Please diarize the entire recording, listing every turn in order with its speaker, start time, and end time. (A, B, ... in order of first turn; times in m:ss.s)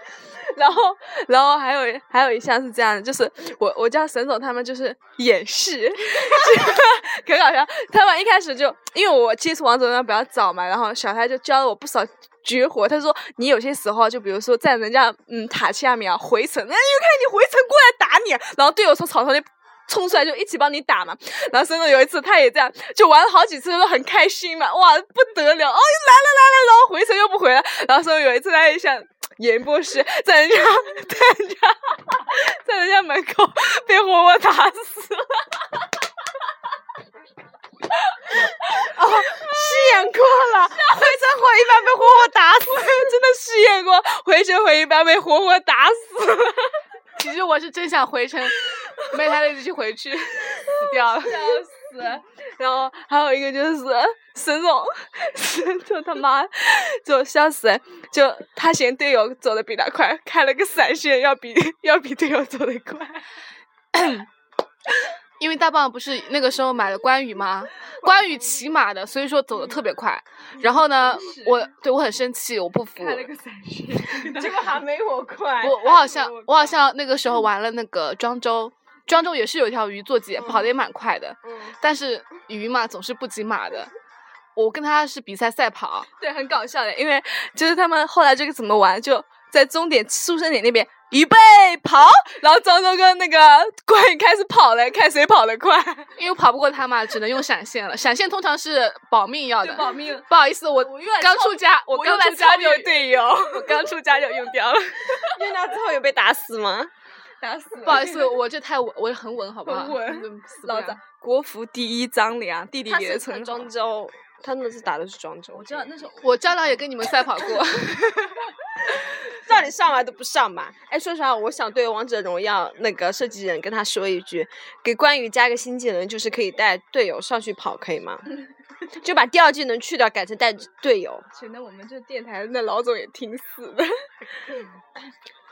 0:00.4-0:35.6 A
0:38.6-0:43.1 B
0:38.9-0:40.1 A
0:40.7-0:41.4 A
0:41.9-0:46.8 A
0:47.2-0:51.4 C
0:50.7-1:03.3 A
1:03.9-1:04.3 C
1:05.4-1:13.3 C
1:08.0-1:08.6 A
1:10.6-1:11.7 A
1:12.9-1:14.8 A
1:14.3-1:16.8 B
1:15.6-1:23.9 C
1:20.4-1:20.7 B
1:21.4-1:21.8 B
1:24.6-1:26.1 C
1:26.2-1:36.1 A
1:36.2-1:43.1 C
1:39.6-1:45.4 A
1:45.3-1:46.9 B
1:47.4-1:48.4 A
1:47.8-1:51.0 C
1:49.6-1:53.7 A
1:52.9-1:55.9 B
1:55.5-1:56.9 A
1:56.2-1:58.2 C
1:59.4-2:08.2 B
2:09.0-2:11.3 B
2:11.3-2:13.9 A